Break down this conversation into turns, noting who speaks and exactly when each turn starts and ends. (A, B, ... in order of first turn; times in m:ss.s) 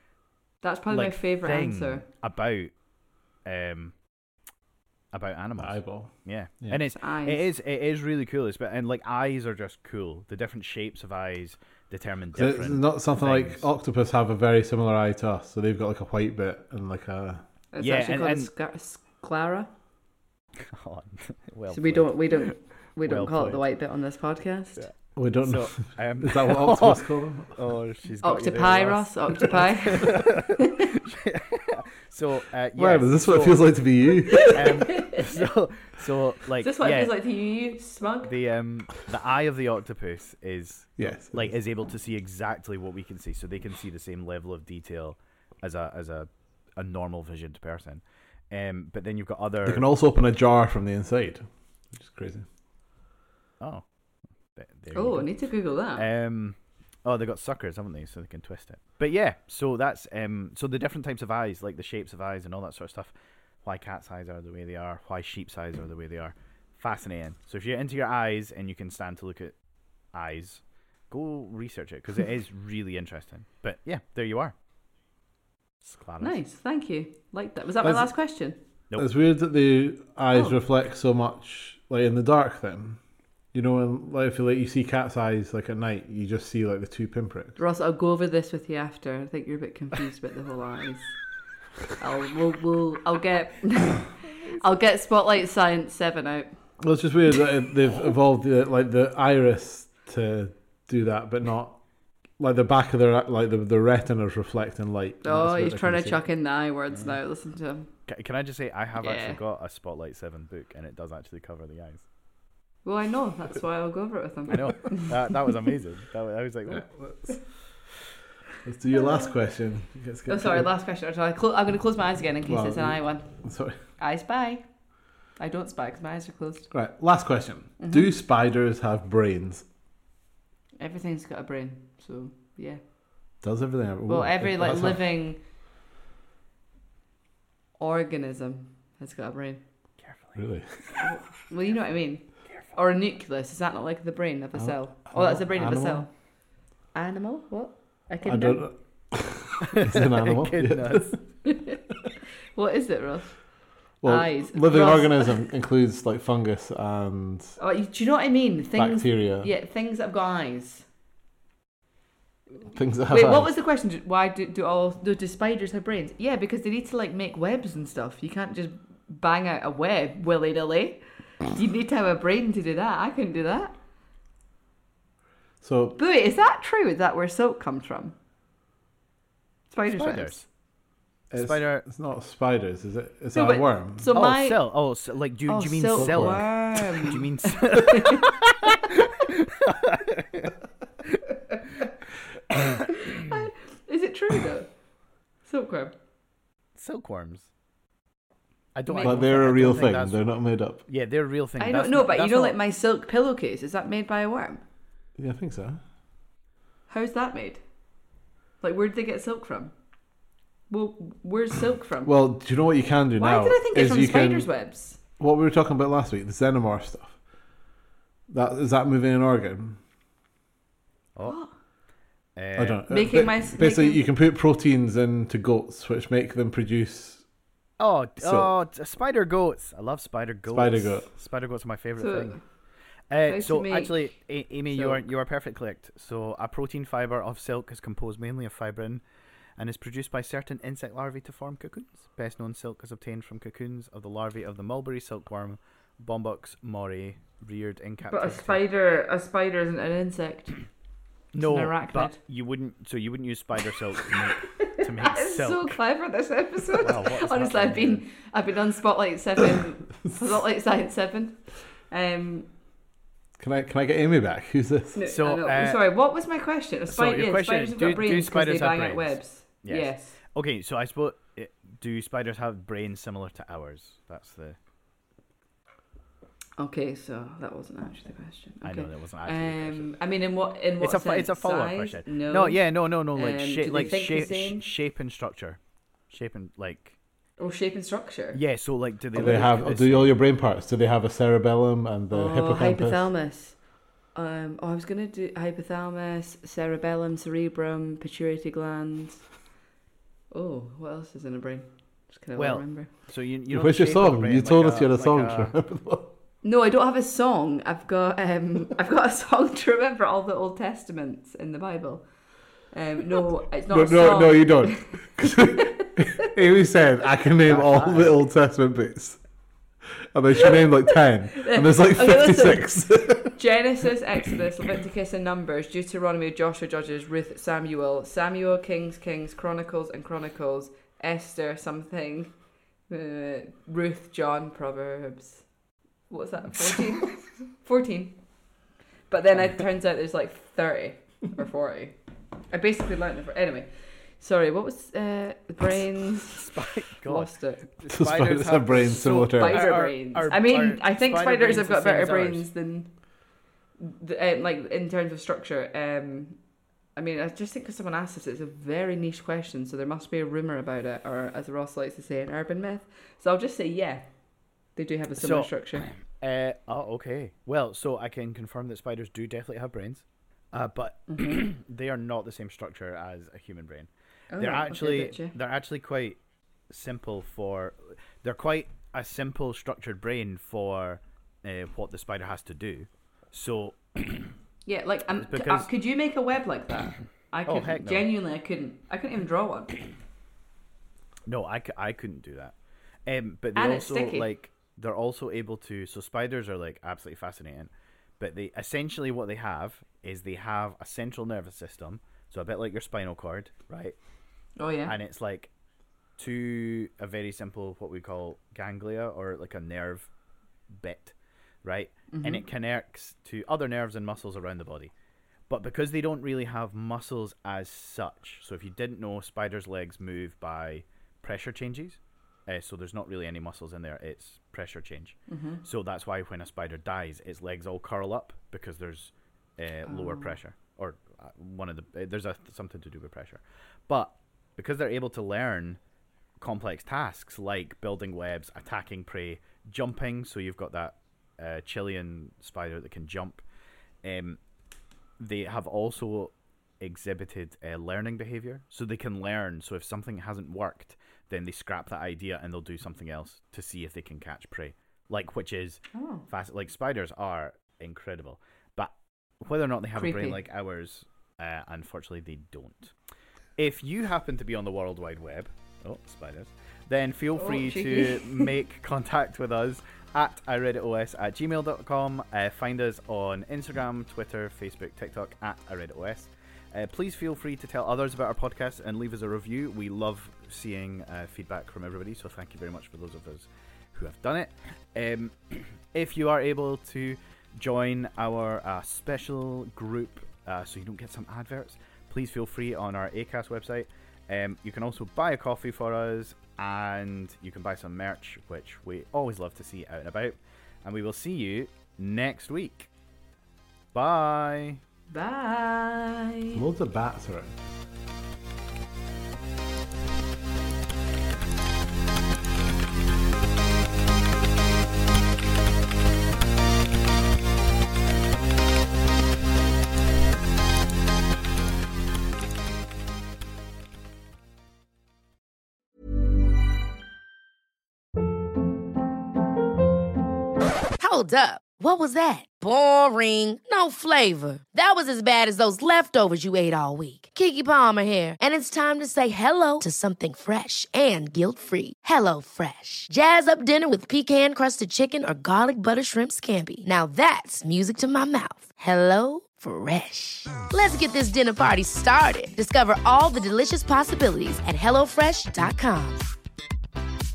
0:00.6-0:02.1 A
0:00.9-0:02.7 B
0:03.4-0:03.9 B
0:05.1-0:13.6 B
0:05.6-0:06.8 C
0:07.0-0:07.4 A
0:12.3-0:17.4 C
0:17.7-0:19.7 A
0:17.8-0:18.5 B
0:20.6-0:23.6 B
0:21.7-0:24.9 A
0:24.8-0:33.8 B
0:25.2-0:27.6 C
0:28.2-0:30.7 A
0:32.8-0:34.9 C
0:34.3-0:35.2 A
0:34.5-0:37.1 B
0:36.6-0:38.3 A
0:38.2-0:49.9 B
0:41.0-0:41.5 C
0:49.6-0:52.4 C
0:54.6-0:55.4 B
0:54.9-0:56.1 A
0:55.9-1:03.1 B
1:03.6-1:09.6 B
1:10.1-1:14.5 B
1:15.8-1:16.4 B
1:16.2-1:18.6 A
1:19.0-1:23.0 C
1:23.5-1:27.6 C
1:27.6-1:31.1 A
1:32.0-1:36.5 A
1:36.8-1:41.8 C
1:42.4-1:46.2 C
1:45.2-1:47.9 A
1:48.1-1:52.0 B
1:49.0-1:49.4 A
1:52.8-1:55.2 A
1:54.5-1:56.9 B
1:56.7-1:57.4 C
1:58.6-2:00.7 C
1:58.9-1:59.3 A
2:00.3-2:03.3 A
2:02.5-2:03.8 C
2:04.0-2:04.6 A
2:05.4-2:06.7 A
2:06.7-2:09.6 C
2:07.8-2:08.1 A
2:10.8-2:12.8 A
2:13.4-2:15.0 C
2:14.1-2:15.4 A
2:17.8-2:19.6 A
2:20.0-2:20.4 B
2:20.4-2:20.7 C
2:21.0-2:26.1 A
2:24.6-2:26.1 C
2:26.9-2:28.7 A
2:28.2-2:31.1 C
2:29.7-2:31.2 B
2:31.4-2:31.8 A
2:32.6-2:33.3 A
2:34.0-2:37.5 C
2:34.0-2:35.4 A
2:37.6-2:40.8 A
2:38.8-2:39.5 C
2:42.7-2:43.5 C
2:43.1-2:53.8 A
2:55.6-2:56.0 C
2:56.0-2:58.1 A
2:59.7-3:00.4 A
2:59.9-3:00.4 B
3:01.3-3:04.2 C
3:01.4-3:01.8 B
3:03.3-3:04.7 A
3:04.1-3:10.5 B
3:05.5-3:08.4 A
3:05.9-3:06.4 C
3:13.1-3:14.7 A
3:15.4-3:15.9 A
3:16.8-3:17.5 B
3:18.7-3:20.3 B
3:18.9-3:19.7 A
3:19.0-3:20.8 C
3:20.9-3:22.6 B
3:21.6-3:24.6 A
3:25.2-3:25.8 C
3:26.9-3:27.6 A
3:28.6-3:29.7 A
3:30.7-3:32.1 A
3:32.0-3:34.5 C
3:33.2-3:35.0 A
3:35.2-3:37.2 C
3:38.3-3:39.8 C
3:41.2-3:41.5 A
3:42.4-3:42.8 B
3:42.6-3:47.2 C
3:42.9-3:44.0 A
3:47.8-3:52.4 B
3:48.2-3:48.5 C
3:50.5-3:51.1 C
3:52.0-3:52.4 A
3:53.1-3:59.0 B
3:53.2-3:54.1 A
3:54.7-3:55.0 A
3:59.6-4:08.6 B
4:08.1-4:10.6 A
4:11.3-4:15.8 B
4:11.4-4:12.2 A
4:14.5-4:22.5 A
4:16.7-4:18.1 B
4:23.4-4:25.0 C
4:24.9-4:30.2 A
4:25.1-4:25.8 B
4:26.9-4:34.6 B
4:36.6-4:44.7 A
4:38.6-4:40.0 B
4:40.8-4:45.6 B
4:46.1-4:47.0 B
4:47.4-4:48.4 A
4:48.3-4:50.2 B
4:49.1-4:53.0 C
4:52.1-4:53.6 A
4:54.1-4:59.2 A
5:00.3-5:02.9 A
5:02.4-5:05.5 B
5:03.5-5:06.1 C
5:06.4-5:12.0 A
5:12.7-5:16.1 A
5:13.7-5:19.2 C
5:17.4-5:18.2 B
5:20.1-5:23.4 C
5:21.4-5:32.3 A
5:32.9-5:35.4 A
5:36.1-5:38.2 A
5:39.1-5:41.9 A
5:42.5-5:52.9 A
5:46.3-5:52.5 B
5:47.9-5:49.7 C
5:53.8-5:56.4 A
5:57.0-6:04.1 A
6:04.8-6:05.9 A
6:05.2-6:16.2 B
6:11.1-6:11.4 A
6:14.3-6:15.4 A
6:16.7-6:24.3 B
6:24.6-6:29.9 A
6:25.2-6:25.7 B
6:27.4-6:28.1 B
6:31.3-6:32.5 B
6:33.1-6:44.0 B
6:33.6-6:34.3 A
6:44.6-6:44.9 A
6:44.9-6:45.5 B
6:46.2-6:50.1 B
6:50.7-6:54.9 B
6:52.1-6:52.4 A
6:55.5-7:15.8 B
7:05.3-7:05.6 A
7:09.9-7:10.4 A
7:16.4-7:23.4 B
7:24.0-7:24.4 B
7:25.2-7:42.9 B
7:35.9-7:36.2 A
7:40.0-7:40.4 A
7:43.6-8:22.9 B
7:47.4-7:48.5 A
8:23.9-8:24.8 B
8:25.1-8:26.6 A
8:26.5-8:27.5 C
8:51.0-9:16.3 D